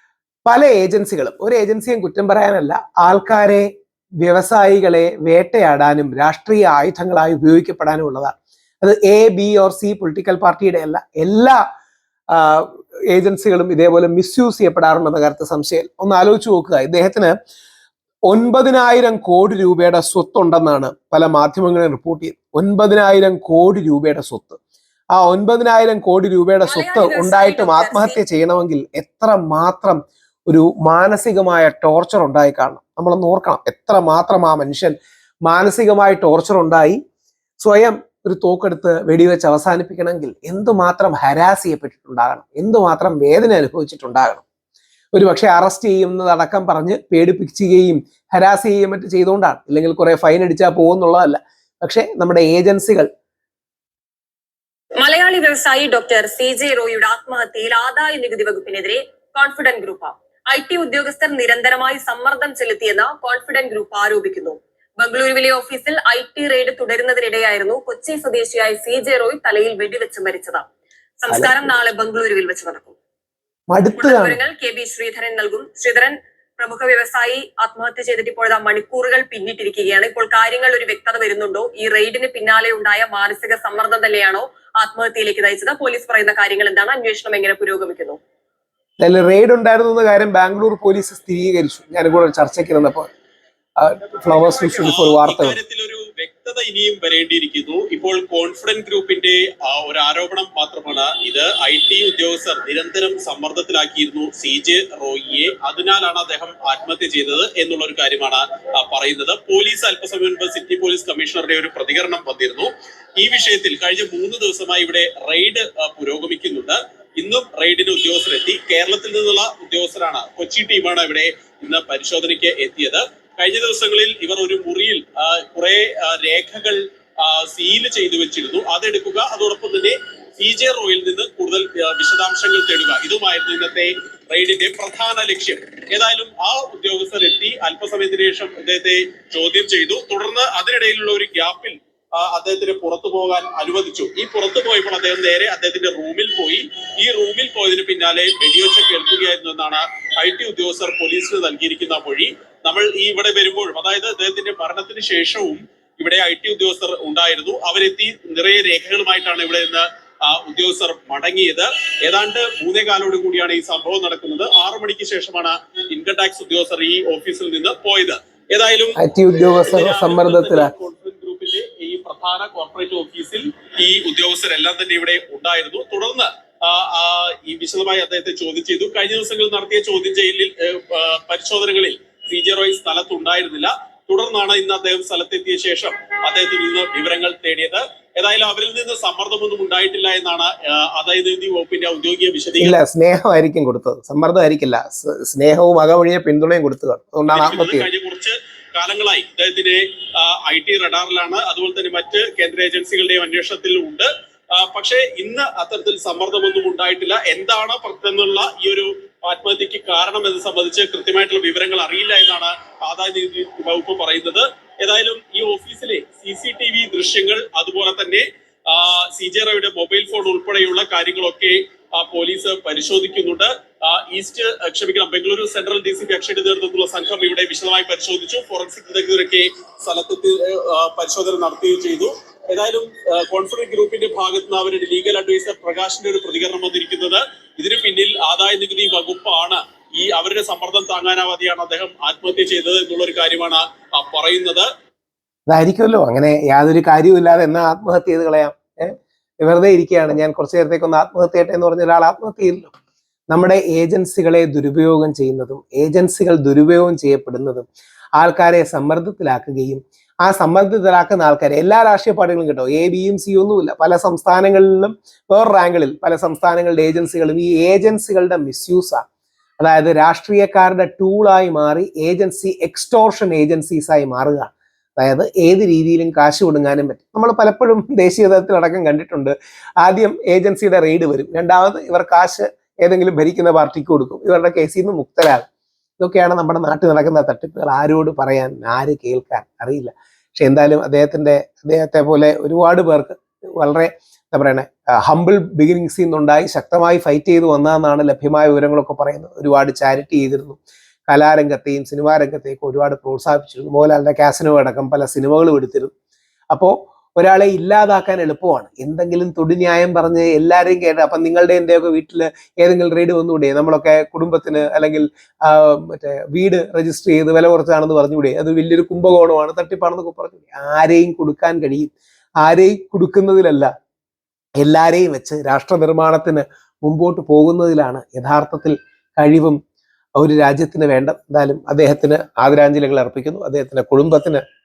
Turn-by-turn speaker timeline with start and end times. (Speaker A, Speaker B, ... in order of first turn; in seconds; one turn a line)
Speaker A: 0.5-3.7
Speaker A: 4.2-11.6
Speaker A: 12.3-17.3
Speaker A: 18.3-24.6
Speaker A: 25.1-34.9
Speaker B: 26.6-28.2
Speaker A: 35.5-37.0
Speaker A: 37.6-44.4
Speaker A: 45.1-53.1
Speaker B: 55.0-70.6
Speaker B: 71.2-73.0
Speaker A: 71.3-71.7
Speaker A: 73.7-74.4
Speaker B: 74.0-88.2
Speaker A: 89.0-93.1
Speaker A: 93.8-95.6
Speaker C: 94.3-169.0
Speaker A: 169.0-170.7
Speaker C: 169.5-192.8
Speaker A: 192.6-197.9
Speaker C: 197.3-244.7
Speaker A: 245.5-252.7
Speaker A: 253.3-257.6
Speaker A: 258.2-269.0
Speaker A: 269.6-285.4
Speaker A: 286.0-305.9
Speaker A: 306.5-321.9
Speaker A: 322.4-323.7
Speaker A: 324.6-329.6
Speaker A: 330.2-334.4